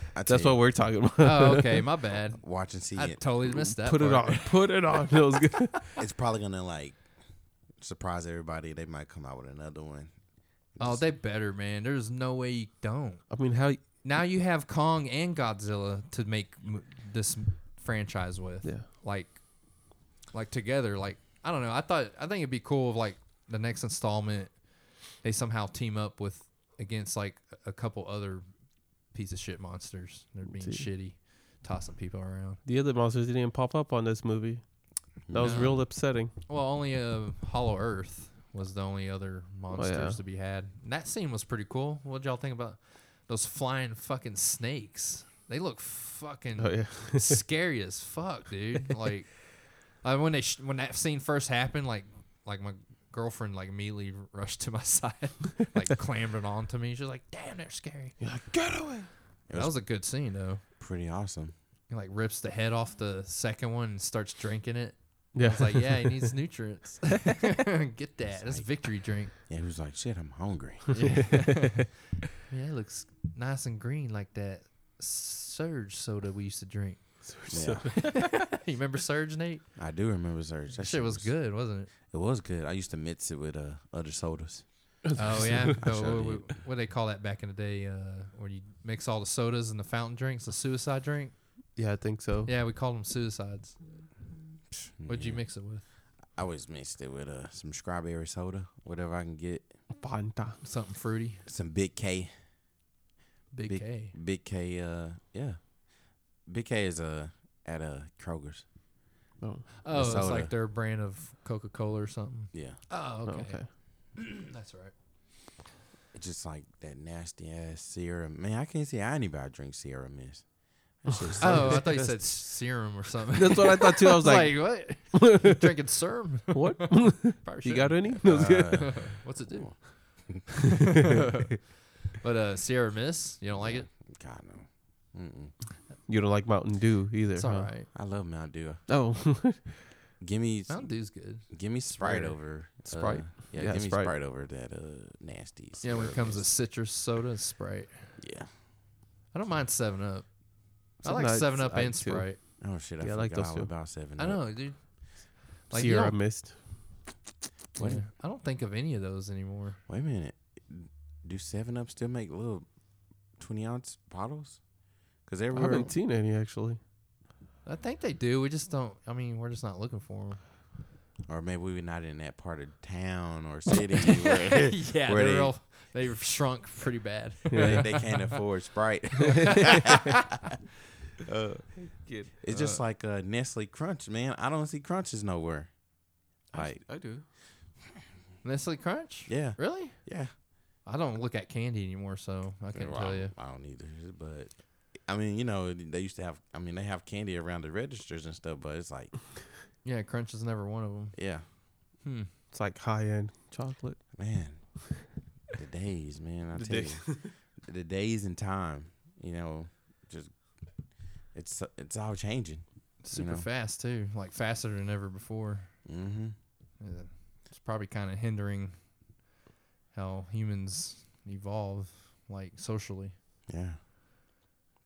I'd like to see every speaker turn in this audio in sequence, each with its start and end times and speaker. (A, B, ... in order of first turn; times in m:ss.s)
0:00.1-0:01.0 A
0:00.3-0:01.8 B
0:01.2-0:04.6 C
0:02.3-0:03.8 A
0:03.8-0:06.0 B
0:06.0-0:11.1 A
0:10.8-0:32.6 C
0:13.3-0:14.0 B
0:30.5-0:30.9 B
0:32.6-0:36.3 B
0:35.3-0:35.7 A
0:35.4-0:58.2 C
0:39.7-0:40.2 B
0:46.6-0:47.4 B
0:58.2-0:59.1 B
0:59.5-1:00.1 A
0:59.5-1:00.6 C
1:00.8-1:01.6 A
1:01.9-1:09.3 C
1:05.3-1:06.3 B
1:08.3-1:11.5 A
1:10.9-1:11.8 C
1:11.1-1:11.6 B
1:12.5-1:19.7 C
1:17.2-1:18.1 B
1:17.5-1:18.0 A
1:19.8-1:26.7 A
1:20.8-1:21.9 C
1:25.2-1:31.8 C
1:25.2-1:25.7 B
1:31.8-1:32.5 B
1:32.5-1:34.2 C
1:35.0-1:39.8 A
1:35.0-1:35.8 C
1:40.0-1:40.6 B
1:40.6-1:41.4 C
1:41.5-1:42.4 A
1:43.5-1:44.2 C
1:43.7-1:48.7 A
1:49.4-1:49.7 B
1:49.8-1:54.9 C
1:49.9-1:50.5 A
1:52.5-1:52.8 A
1:53.2-1:53.7 B
1:56.1-2:02.2 A
2:01.1-2:02.8 B
2:01.4-2:10.5 C
2:03.4-2:05.7 B
2:06.5-2:09.1 B
2:08.2-2:10.4 A
2:12.2-2:13.9 C
2:13.6-2:15.6 A
2:16.1-2:17.7 B
2:17.4-2:17.9 C
2:17.9-2:18.9 A
2:18.9-2:19.8 B
2:20.2-2:26.5 A
2:20.7-2:22.4 C
2:22.8-2:24.1 B
2:25.8-2:28.2 C
2:28.2-2:28.6 A
2:29.3-2:32.4 C
2:31.0-2:33.8 B
2:32.6-2:34.9 A
2:34.2-2:36.6 C
2:35.7-2:36.9 B
2:37.8-2:38.0 A
2:37.8-2:39.8 C
2:39.9-2:45.9 A
2:45.5-2:46.8 B
2:47.6-2:50.4 C
2:51.3-2:55.6 A
2:54.5-2:58.3 C
2:57.5-2:58.0 B
2:57.7-2:59.8 A
2:59.6-2:59.9 C
3:01.3-3:07.4 A
3:01.8-3:02.3 B
3:02.5-3:02.8 C
3:06.5-3:07.3 B
3:08.4-3:13.3 C
3:09.3-3:10.4 A
3:12.7-3:19.2 A
3:19.8-3:22.3 C
3:21.1-3:21.5 A
3:22.5-3:24.7 B
3:24.1-3:33.5 A
3:26.5-3:27.3 B
3:33.0-3:35.9 C
3:35.8-3:36.4 A
3:36.8-3:39.1 C
3:39.9-3:43.2 C
3:43.5-3:43.8 A